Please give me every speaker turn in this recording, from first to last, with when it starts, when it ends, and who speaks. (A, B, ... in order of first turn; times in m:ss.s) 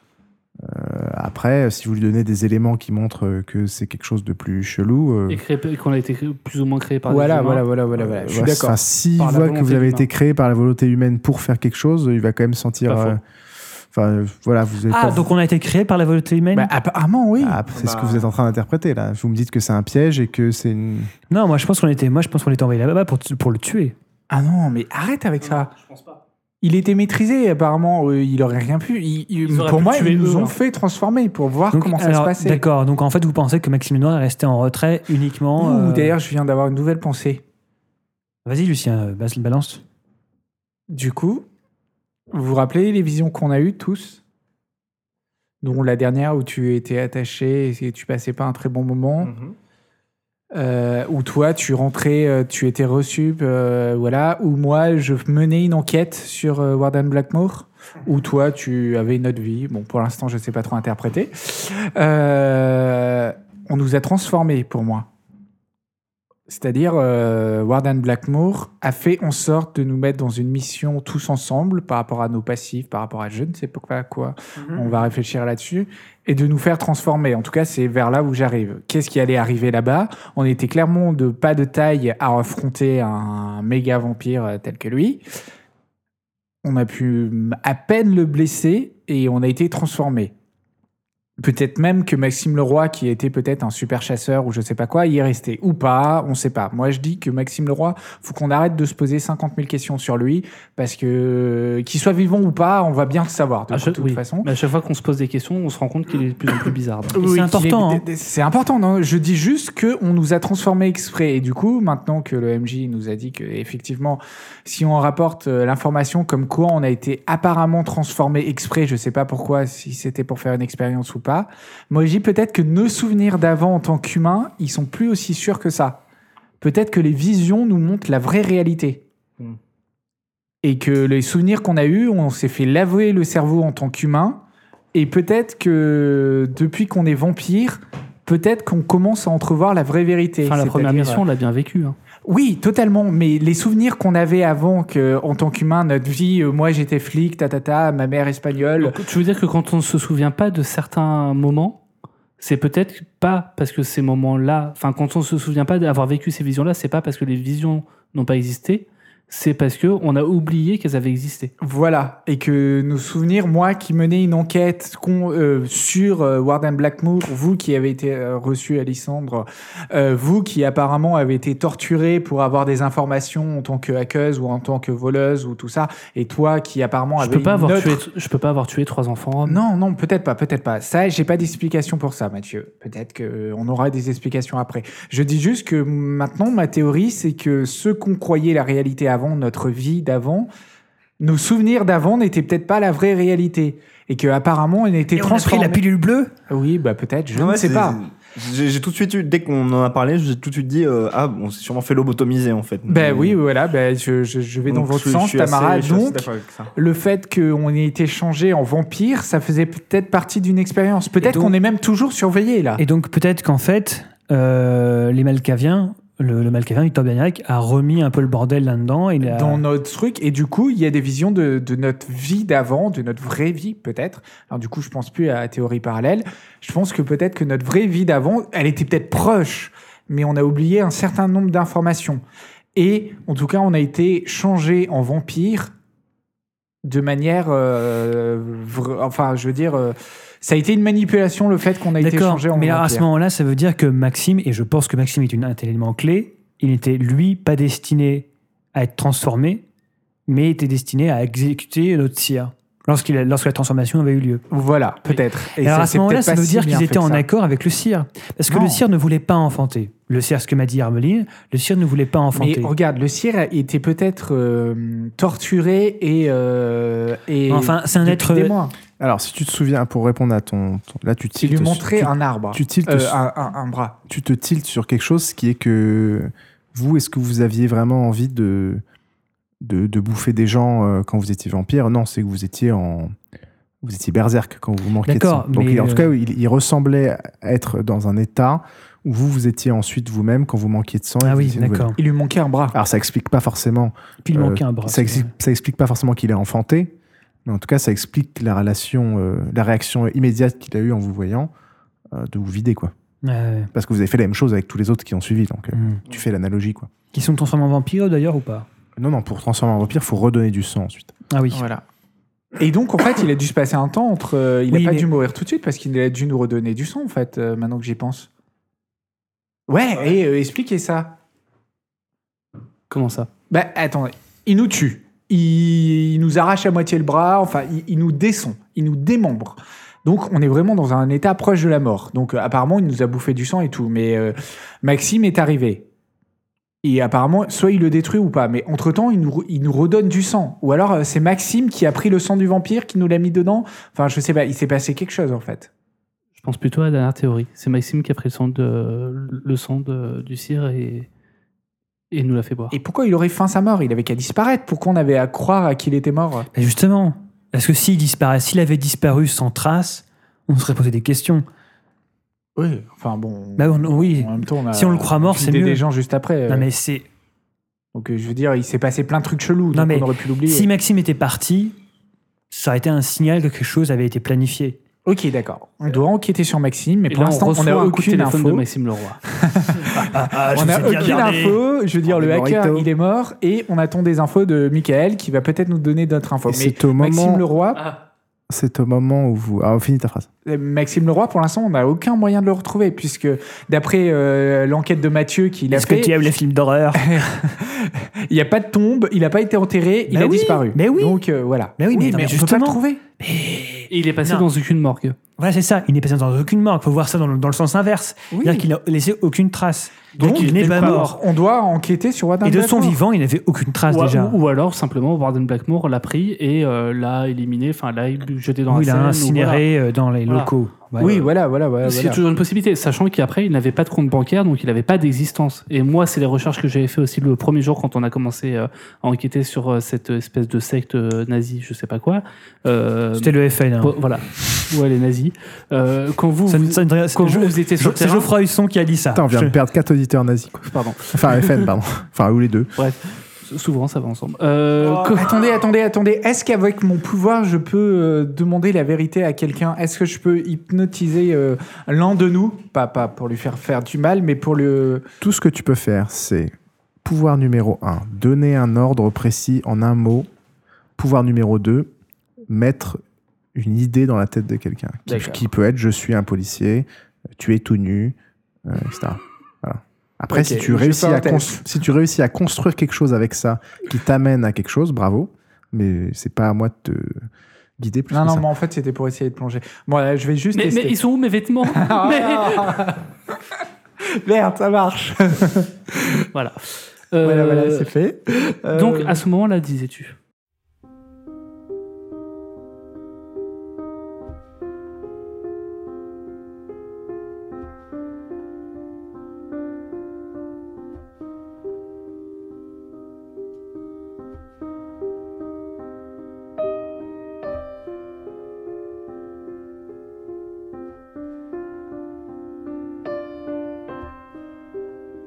0:00.6-0:05.4 A
0:05.3-0:07.6 B
0:07.1-0:08.8 C
0:08.0-0:13.2 A
0:09.2-0:10.1 B
0:12.8-0:13.2 B
0:13.9-0:15.3 A
0:14.9-0:16.7 D
0:16.5-0:17.6 C
0:17.4-0:21.1 A
0:17.7-0:18.3 E
0:21.3-0:23.9 D
0:24.3-0:25.7 C
0:25.5-0:26.2 B
0:26.6-0:32.6 C
0:29.4-0:30.6 B
0:31.7-0:36.2 D
0:35.6-0:37.4 C
0:38.4-0:39.8 D
0:40.9-0:41.4 C
0:42.3-0:44.2 C
0:45.6-0:49.3 C
0:49.2-0:49.5 E
0:50.5-1:05.1 C
1:06.5-1:25.2 C
1:26.6-1:30.3 C
1:31.4-1:44.5 C
1:43.7-1:47.2 B
1:47.1-2:06.0 C
1:47.2-1:48.0 D
2:06.6-2:09.0 C
2:10.6-2:14.4 C
2:14.9-2:21.2 C
2:20.4-2:22.0 B
2:22.2-2:29.0 C
2:28.8-2:31.8 B
2:32.4-2:41.5 B
2:41.6-2:58.0 C
2:57.2-2:59.6 B
2:59.4-3:10.5 C
3:11.2-3:15.8 C
3:15.1-3:16.3 D
3:16.5-3:18.0 C
3:17.3-3:23.4 E
3:22.9-3:32.8 C
3:24.6-3:26.7 E
3:31.2-3:31.6 D
3:32.8-3:39.6 D
3:39.2-3:52.2 C
3:52.8-3:55.7 C
3:56.8-4:03.1 C
4:02.0-4:09.6 D
4:10.3-4:14.4 D
4:14.5-4:17.2 C
4:15.6-4:22.7 D
4:18.5-4:18.8 C
4:22.3-4:28.8 C
4:27.5-4:28.5 D
4:29.0-4:33.2 A
4:31.4-4:34.0 C
4:34.1-4:38.8 A
4:39.6-4:43.1 A
4:43.8-4:51.9 A
4:45.0-4:46.1 D
4:51.2-4:52.0 D
4:52.0-4:52.8 C
4:52.7-4:56.9 A
4:54.2-4:55.3 D
4:57.4-5:01.5 A
5:02.1-5:02.9 A
5:03.2-5:03.7 D
5:03.7-5:06.9 A
5:05.7-5:06.0 D
5:07.1-5:08.7 D
5:09.0-5:11.1 A
5:11.3-5:11.6 D
5:11.5-5:11.8 C
5:12.6-5:18.3 C
5:14.7-5:15.1 D
5:19.7-5:21.2 C
5:22.9-5:23.3 B
5:23.5-5:35.9 C
5:36.8-5:45.7 C
5:46.4-5:51.1 B
5:52.1-5:52.8 B
5:52.7-5:56.5 C
5:56.5-6:01.4 D
6:02.6-6:06.7 C
6:03.6-6:05.8 D
6:06.5-6:07.1 D
6:07.9-6:10.7 C
6:09.7-6:11.8 D
6:12.5-6:14.8 D
6:15.0-6:18.6 C
6:17.1-6:19.2 B
6:19.3-6:27.8 C
6:19.9-6:21.6 D
6:22.0-6:22.9 A
6:26.4-6:27.4 A
6:27.7-6:28.0 B
6:28.5-6:30.3 A
6:30.4-6:36.1 C
6:35.7-6:37.5 D
6:37.0-6:43.0 C
6:40.1-6:41.2 D
6:41.8-6:44.4 D
6:43.9-6:45.2 B
6:45.4-6:51.2 D
6:48.3-6:48.6 C
6:50.2-6:53.0 C
6:50.2-6:51.0 B
6:52.4-6:54.4 D
6:53.9-6:59.6 B
6:58.7-7:01.1 D
7:01.0-7:02.2 C
7:01.0-7:01.3 B
7:01.8-7:18.3 B
7:13.2-7:14.0 D
7:16.5-7:19.5 D
7:19.1-7:22.7 A
7:20.6-7:21.7 B
7:22.8-7:25.5 B
7:24.8-7:35.0 C
7:35.2-7:36.5 A
7:37.0-7:40.3 A
7:41.0-7:41.9 A
7:42.5-7:43.0 A
7:43.5-7:57.3 A
7:45.1-7:45.4 C
7:50.3-7:51.6 C
7:57.8-7:58.5 A
7:58.1-8:01.0 C
8:00.5-8:02.9 B
8:01.7-8:03.0 C
8:04.0-8:06.2 C
8:06.3-8:07.9 B
8:07.2-8:09.2 C
8:08.7-8:10.2 B